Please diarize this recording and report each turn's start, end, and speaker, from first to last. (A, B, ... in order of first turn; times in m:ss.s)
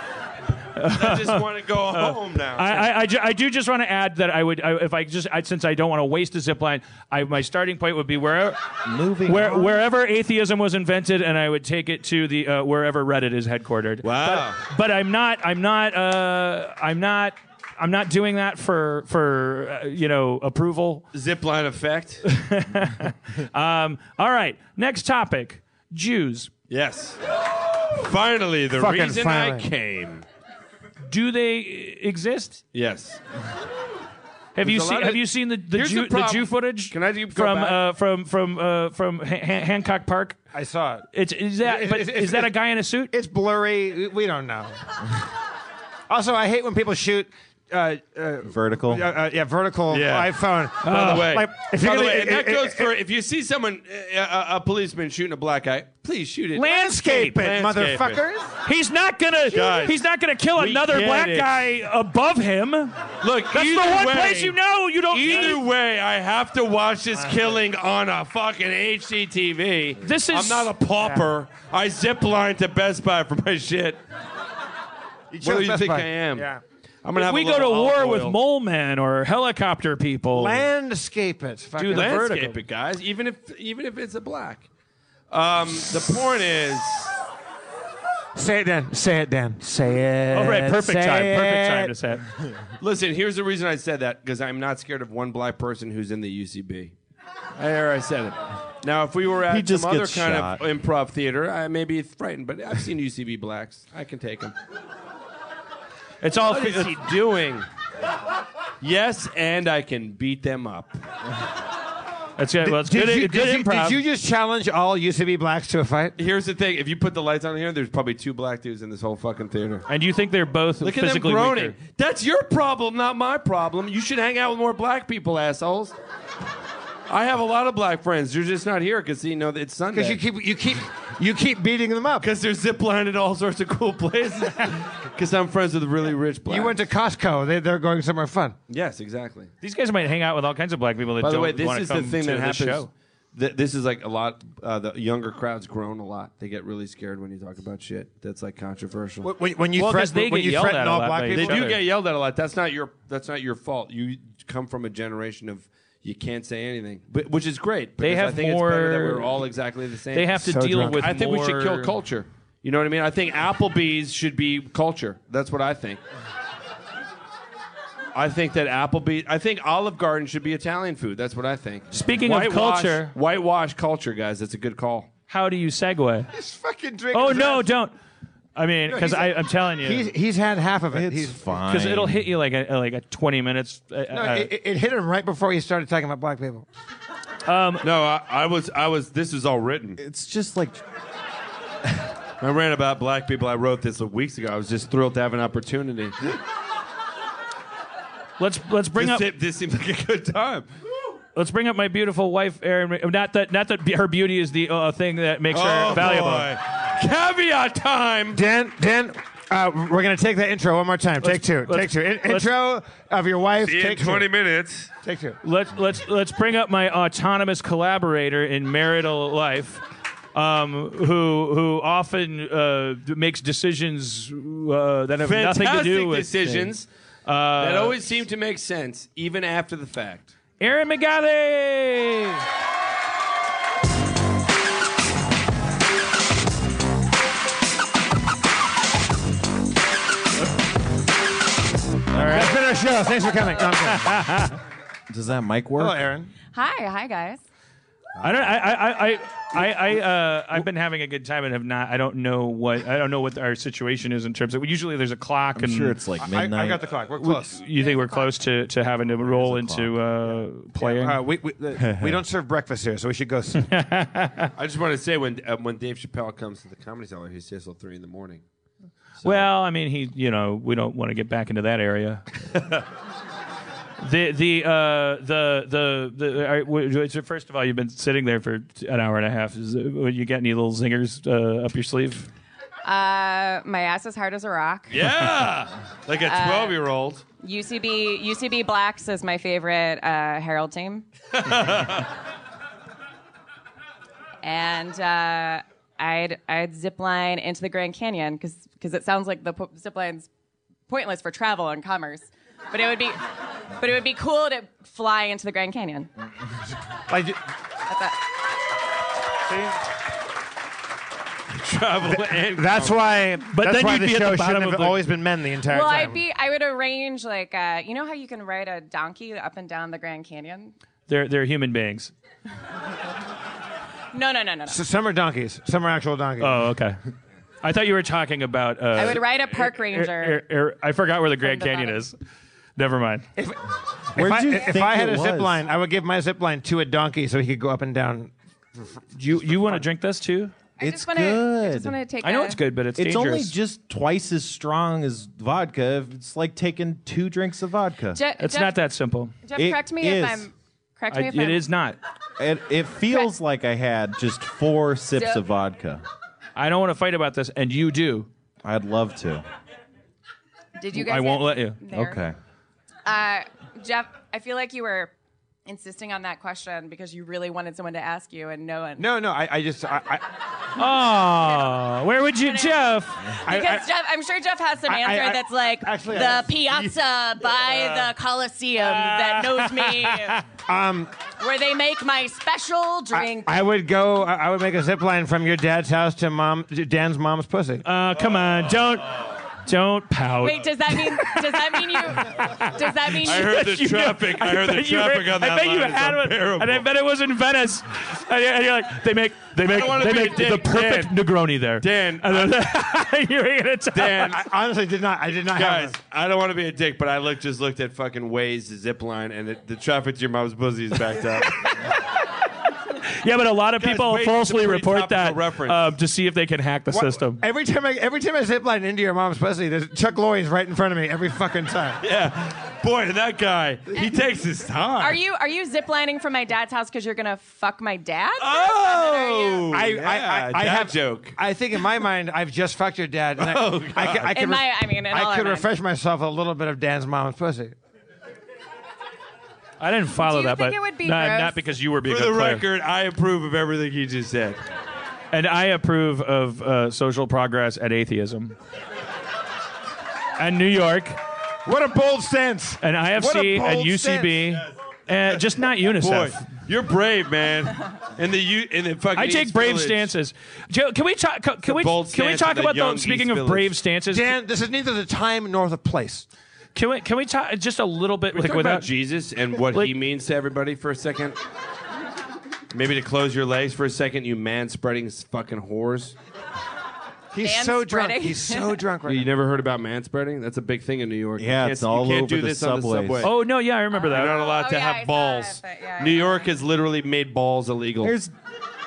0:00.8-0:08.6 A
0:00.8-0:02.9 B
0:08.8-0:09.8 C
0:09.2-0:21.0 A
0:14.0-0:14.6 B
0:21.1-0:22.2 B
0:22.2-0:26.5 A
0:26.7-0:27.2 B
0:27.8-0:30.2 B
0:28.7-0:29.7 D
0:31.1-0:32.6 A
0:32.7-0:33.2 B
0:34.6-0:40.4 A
0:34.6-0:37.8 B
0:40.5-0:41.0 D
0:41.1-0:43.1 A
0:41.6-0:42.5 D
0:43.1-0:44.9 D
0:46.1-0:52.9 D
0:48.5-0:49.0 C
0:49.9-0:50.3 B
0:50.8-0:51.3 A
0:50.8-0:58.2 B
0:56.6-0:58.5 D
0:56.6-0:57.3 A
0:58.6-1:05.6 A
0:59.5-1:00.0 B
1:00.6-1:01.6 B
1:03.2-1:04.6 B
1:05.1-1:14.0 B
1:10.0-1:10.7 A
1:11.0-1:11.3 D
1:15.3-1:16.6 D
1:15.4-1:16.5 B
1:17.0-1:18.4 B
1:17.1-1:20.6 A
1:20.3-1:22.4 D
1:21.8-1:22.6 A
1:21.9-1:24.7 B
1:25.3-1:27.2 B
1:28.3-1:31.9 D
1:30.3-1:32.2 A
1:32.8-1:36.9 B
1:37.6-1:44.5 B
1:39.5-1:40.6 C
1:46.2-1:47.0 A
1:46.4-1:47.7 B
1:48.8-1:51.0 B
1:52.4-1:54.0 A
1:52.6-1:56.2 D
1:56.2-1:59.8 B
1:59.9-2:01.8 A
2:00.8-2:06.0 B
2:07.1-2:10.2 B
2:09.9-2:12.3 D
2:12.2-2:16.8 B
2:16.5-2:18.6 D
2:18.7-2:19.5 B
2:19.6-2:22.9 A
2:21.2-2:29.3 B
2:29.2-2:31.7 D
2:29.8-2:31.8 A
2:31.3-2:40.4 B
2:38.0-2:39.4 A
2:40.1-2:41.9 A
2:40.3-2:41.1 D
2:41.0-2:46.0 B
2:48.1-2:55.1 B
2:51.9-2:53.1 A
2:55.3-2:56.3 A
2:56.3-2:57.7 D
2:57.1-2:57.9 A
2:58.6-3:00.1 A
2:58.9-3:01.4 D
3:00.9-3:02.2 C
3:01.7-3:04.5 A
3:04.1-3:06.7 D
3:07.4-3:07.8 A
3:07.8-3:10.0 B
3:10.0-3:10.8 C
3:12.4-3:16.3 B
3:18.4-3:19.3 A
3:19.0-3:20.7 B
3:21.4-3:26.5 A
3:25.5-3:28.4 B
3:28.3-3:34.3 D
3:31.2-3:32.5 A
3:33.6-3:34.9 B
3:35.0-3:35.4 D
3:35.4-3:46.7 A
3:45.2-3:46.9 B
3:47.2-3:48.0 A
3:47.6-3:50.3 B
3:50.6-3:52.4 A
4:02.1-4:02.5 A
4:02.2-4:04.4 D
4:03.8-4:04.6 A
4:05.1-4:06.0 C
4:05.8-4:06.3 D
4:06.5-4:07.4 E
4:08.2-4:16.0 A
4:15.6-4:16.8 C
4:16.2-4:17.6 D
4:17.2-4:21.2 A
4:17.8-4:18.3 E
4:19.2-4:19.9 C
4:20.8-4:23.7 D
4:21.8-4:22.2 C
4:23.6-4:24.5 A
4:24.6-4:28.4 B
4:29.2-4:32.2 A
4:34.0-4:42.3 A
4:42.8-4:45.1 E
4:44.9-4:47.2 B
4:46.2-4:46.8 E
4:47.4-4:51.0 E
4:51.3-4:52.1 B
4:54.4-5:00.3 E
5:00.9-5:06.1 E
5:07.1-5:07.4 D
5:07.9-5:08.2 E
5:09.5-5:09.7 D
5:11.5-5:13.0 B
5:12.1-5:16.2 D
5:13.5-5:15.1 A
5:15.6-5:20.7 E
5:21.1-5:22.1 A
5:24.1-5:24.8 E
5:24.7-5:26.7 D
5:26.4-5:27.0 A
5:27.6-5:32.2 A
5:28.9-5:30.4 E
5:31.4-5:32.0 E
5:32.8-5:33.2 A
5:33.4-5:33.6 D
5:34.1-5:38.3 D
5:34.2-5:35.6 C
5:39.1-5:40.5 A
5:40.8-5:42.6 E
5:40.8-5:42.0 C
5:42.2-5:43.5 A
5:42.9-5:48.2 C
5:48.1-5:48.8 E
5:48.4-5:49.3 A
5:49.4-5:51.6 E
5:49.6-5:50.5 C
5:51.1-5:52.0 A
5:52.4-5:56.0 C
5:55.2-5:55.4 E
5:56.6-5:58.3 A
5:58.6-5:59.4 C
6:00.8-6:02.2 E
6:00.9-6:01.8 A
6:01.9-6:02.3 C
6:03.0-6:05.1 E
6:05.6-6:09.0 E
6:09.0-6:10.3 D
6:10.8-6:13.4 A
6:12.4-6:20.4 E
6:13.4-6:13.9 D
6:14.9-6:17.0 D
6:17.8-6:18.0 D
6:18.8-6:20.4 A
6:20.7-6:21.1 D
6:21.4-6:23.5 E
6:23.1-6:27.8 D
6:27.8-6:44.4 A
6:30.4-6:33.6 E
6:33.2-6:36.8 B
6:39.6-6:41.2 B
6:41.8-6:42.6 B
6:43.9-6:44.4 B
6:44.3-6:46.0 D
6:45.5-6:51.8 B
6:51.6-6:52.1 A
6:52.8-6:57.4 A
6:53.8-6:55.9 B
6:56.9-7:02.0 D
7:02.0-7:05.2 B
7:05.0-7:09.7 E
7:08.4-7:11.4 B
7:09.7-7:17.8 D
7:13.4-7:14.3 B
7:14.3-7:15.7 E
7:19.8-7:22.6 A
7:20.1-7:21.6 E
7:22.0-7:24.6 B
7:25.3-7:28.6 A
7:30.4-7:31.2 A
7:31.6-7:34.6 D
7:32.8-7:36.5 A
7:36.0-7:40.1 B
7:39.1-7:44.4 A
7:41.6-7:43.7 B
7:44.1-7:46.3 D
7:46.7-7:48.9 A
7:48.3-7:51.4 B
7:52.7-7:56.2 B
7:57.3-7:59.3 D
7:57.4-7:58.7 E
7:59.0-8:03.3 B
8:01.4-8:03.3 C
8:03.2-8:04.4 A
8:04.1-8:06.5 E
8:04.1-8:08.2 B
8:08.0-8:08.3 C